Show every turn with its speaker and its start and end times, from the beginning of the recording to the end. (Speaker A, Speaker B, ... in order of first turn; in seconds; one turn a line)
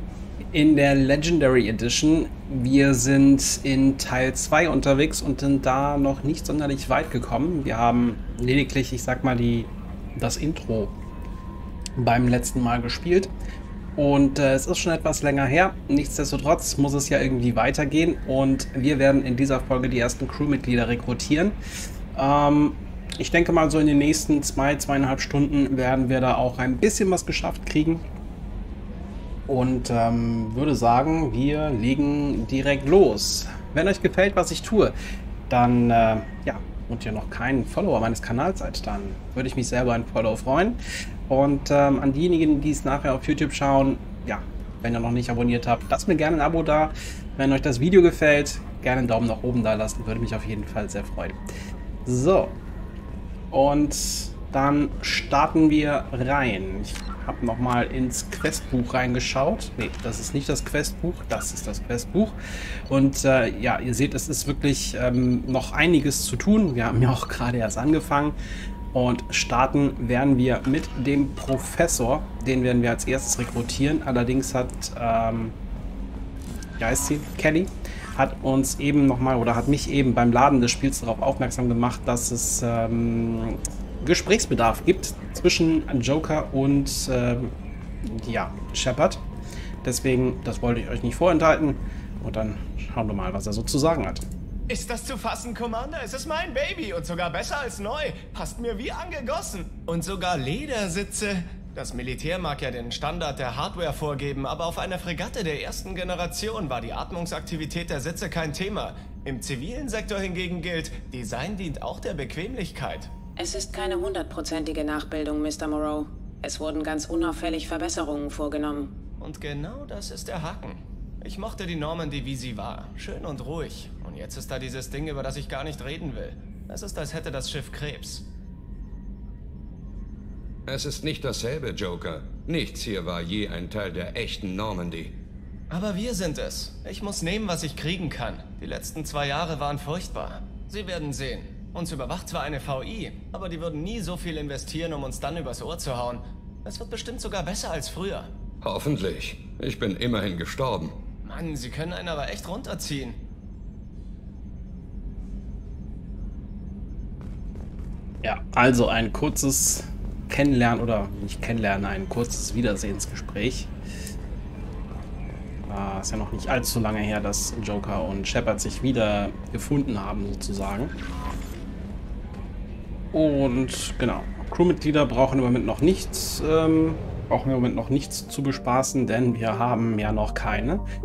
Speaker A: 0.5-10.9
Speaker A: 12.0-13.3
Speaker A: 14.0-21.6
Speaker A: 22.1-28.0
Speaker A: 29.5-35.0
Speaker A: 35.5-51.4
Speaker A: 52.0-52.6
Speaker A: 53.5-62.4
Speaker A: 62.9-68.3
Speaker A: 68.9-75.5
Speaker A: 76.8-87.5
Speaker A: 88.0-89.2
Speaker A: 89.8-94.2
Speaker B: 94.7-113.1
Speaker C: 113.4-118.9
Speaker B: 119.2-128.2
Speaker D: 130.7-135.1
Speaker B: 135.7-148.3
Speaker D: 148.6-150.9
Speaker B: 151.2-153.2
Speaker A: 158.2-163.7
Speaker A: 165.7-170.9
Speaker A: 173.1-180.8